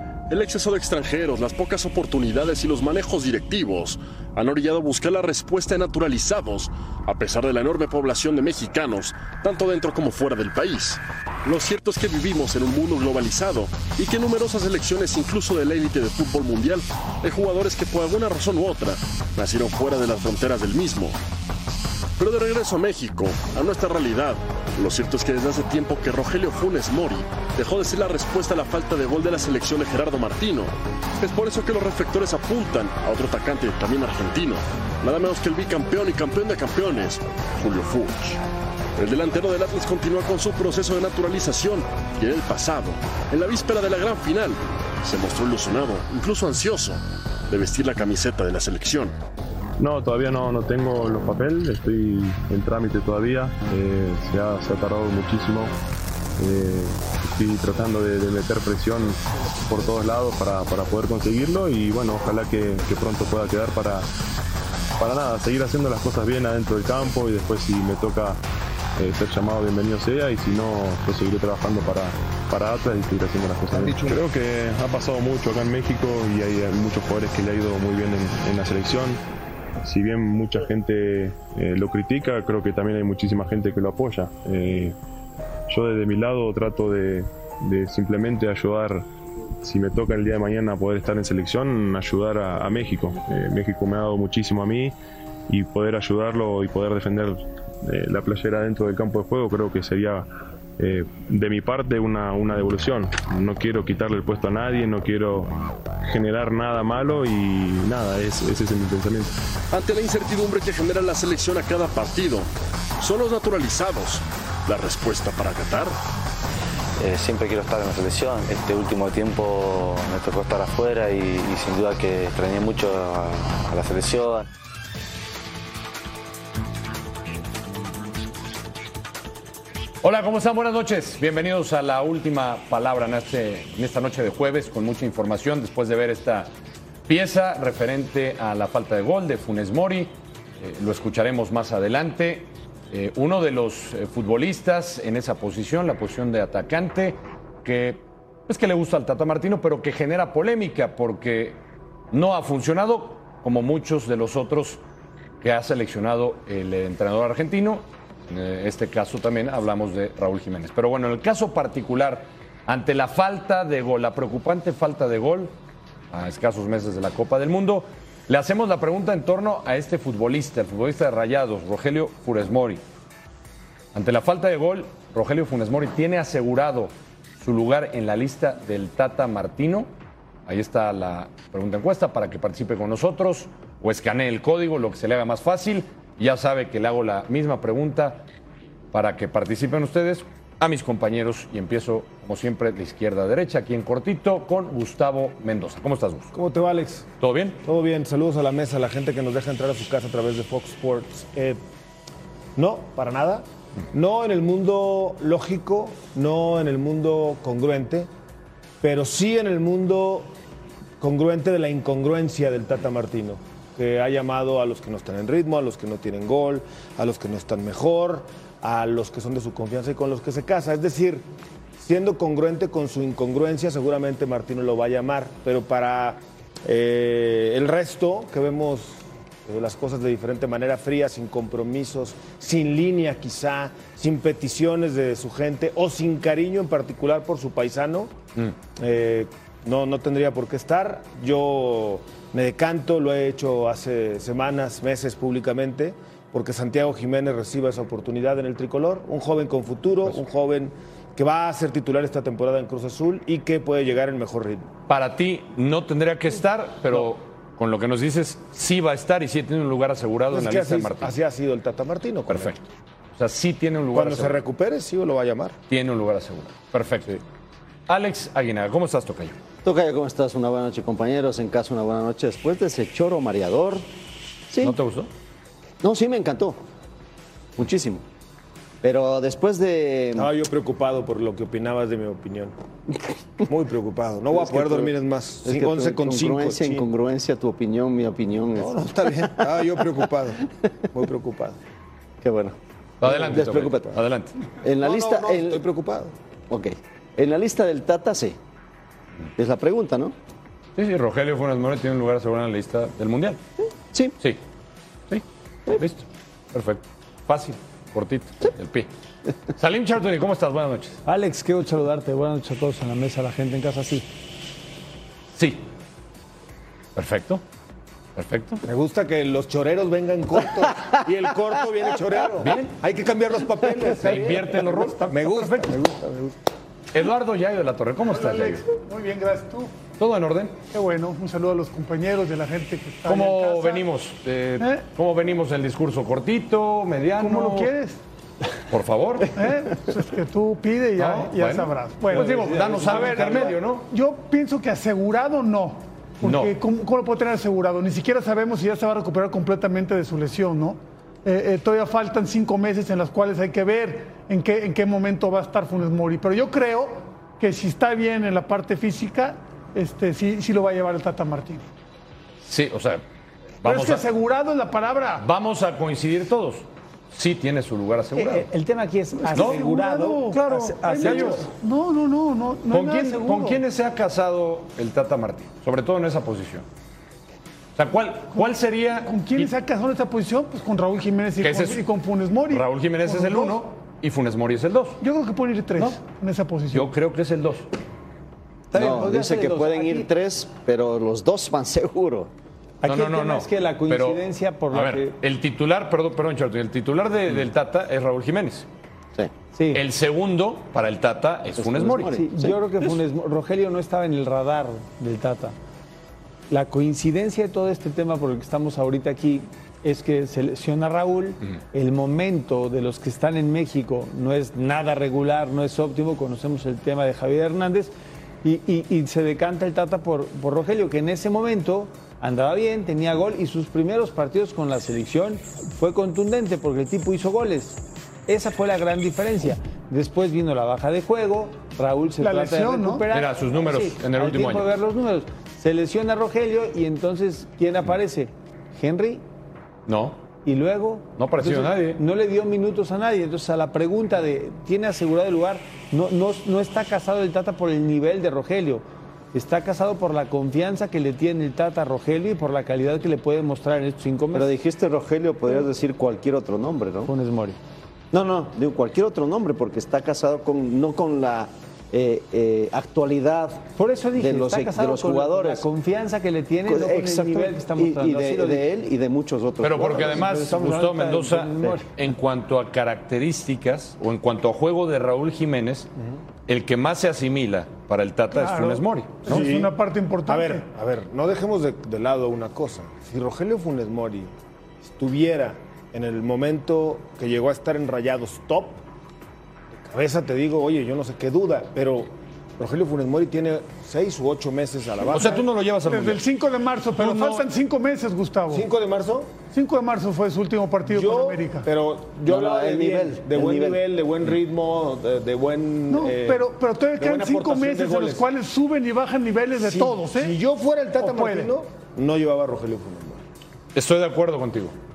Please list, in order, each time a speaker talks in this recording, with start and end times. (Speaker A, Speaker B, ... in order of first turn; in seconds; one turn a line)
Speaker A: 0.3-21.2
Speaker A: 22.2-38.4
Speaker A: 39.0-49.1
Speaker B: 49.8-55.7
Speaker B: 56.4-64.0
Speaker B: 65.0-68.4
Speaker B: 69.0-79.2
Speaker B: 79.8-84.9
Speaker B: 85.7-89.0
Speaker B: 89.6-94.9
Speaker B: 95.5-109.3
Speaker A: 109.7-112.5
Speaker A: 113.0-115.9
Speaker C: 117.0-124.5
Speaker D: 130.0-136.5
Speaker D: 137.1-151.6
Speaker D: 152.1-154.8
Speaker D: 155.4-165.5
Speaker D: 166.1-172.8
Speaker D: 173.9-179.9
Speaker D: 180.5-188.2
Speaker D: 188.9-196.3
Speaker E: 196.3-197.1
Speaker D: 197.2-197.6
Speaker E: 197.6-201.6
Speaker E: 202.6-208.1
Speaker E: 208.8-210.3
Speaker E: 211.0-221.2
Speaker E: 221.8-238.1
Speaker E: 238.8-254.7
Speaker D: 254.9-261.1
Speaker E: 260.3-262.5
Speaker D: 262.3-262.6
Speaker D: 263.1-264.4
Speaker E: 263.9-265.6
Speaker D: 265.7-267.2
Speaker D: 267.9-269.4
Speaker F: 269.6-273.9
Speaker F: 274.5-274.8
Speaker D: 274.6-275.1
Speaker F: 275.8-276.6
Speaker F: 277.6-278.0
Speaker F: 278.8-280.3
Speaker E: 280.1-282.5
Speaker E: 283.5-286.9
Speaker F: 284.3-284.9
Speaker F: 285.4-289.6
Speaker E: 288.6-291.6
Speaker F: 292.2-294.0
Speaker D: 293.0-294.3
Speaker F: 294.6-295.6
Speaker E: 294.6-296.1
Speaker F: 296.5-298.4
Speaker F: 299.4-300.1
Speaker D: 300.8-303.4
Speaker D: 305.7-308.9
Speaker D: 309.5-311.0
Speaker G: 311.1-314.0
Speaker D: 315.3-315.6
Speaker D: 316.9-317.4
Speaker D: 318.1-318.6
Speaker E: 318.6-326.4
Speaker D: 322.4-322.7
Speaker D: 323.9-325.1
Speaker H: 325.0-325.7
Speaker D: 326.9-328.6
Speaker H: 328.0-329.7
Speaker D: 330.0-330.6
Speaker H: 330.7-333.9
Speaker D: 333.1-337.7
Speaker H: 337.1-338.0
Speaker D: 338.7-339.3
Speaker H: 339.3-361.7
Speaker D: 341.0-343.8
Speaker G: 342.1-343.6
Speaker D: 346.2-346.5
Speaker D: 362.4-363.0
Speaker D: 363.6-364.1
Speaker H: 363.6-365.3
Speaker D: 365.2-368.4
Speaker G: 368.1-371.5
Speaker H: 369.2-373.6
Speaker D: 369.3-369.6
Speaker D: 370.9-371.4
Speaker D: 372.7-376.6
Speaker D: 377.8-379.5
Speaker H: 378.3-383.6
Speaker D: 381.4-381.8
Speaker D: 382.5-385.0
Speaker H: 385.0-386.9
Speaker D: 386.7-387.7
Speaker G: 388.7-390.1
Speaker F: 388.7-392.3
Speaker G: 392.8-395.1
Speaker D: 392.8-398.6
Speaker G: 399.5-399.8
Speaker D: 399.7-402.1
Speaker F: 401.6-402.9
Speaker G: 402.1-405.5
Speaker G: 406.5-417.9
Speaker G: 418.4-439.2
Speaker H: 432.2-433.0
Speaker D: 433.1-434.7
Speaker D: 439.9-440.2
Speaker G: 440.4-454.5
Speaker D: 441.2-442.0
Speaker F: 454.3-457.1
Speaker G: 457.0-457.6
Speaker F: 458.1-465.7
Speaker G: 463.8-468.6
Speaker F: 466.7-470.3
Speaker D: 469.6-475.9
Speaker G: 469.8-471.9
Speaker D: 476.5-479.4
Speaker H: 478.3-480.6
Speaker E: 479.2-488.8
Speaker E: 489.8-495.4
Speaker D: 495.1-496.2
Speaker H: 495.8-498.7
Speaker D: 497.0-497.4
Speaker E: 498.5-499.4
Speaker H: 499.5-501.7
Speaker E: 500.8-508.3
Speaker F: 502.2-503.8
Speaker H: 505.9-510.4
Speaker E: 509.6-513.2
Speaker H: 511.0-511.5
Speaker D: 513.7-514.7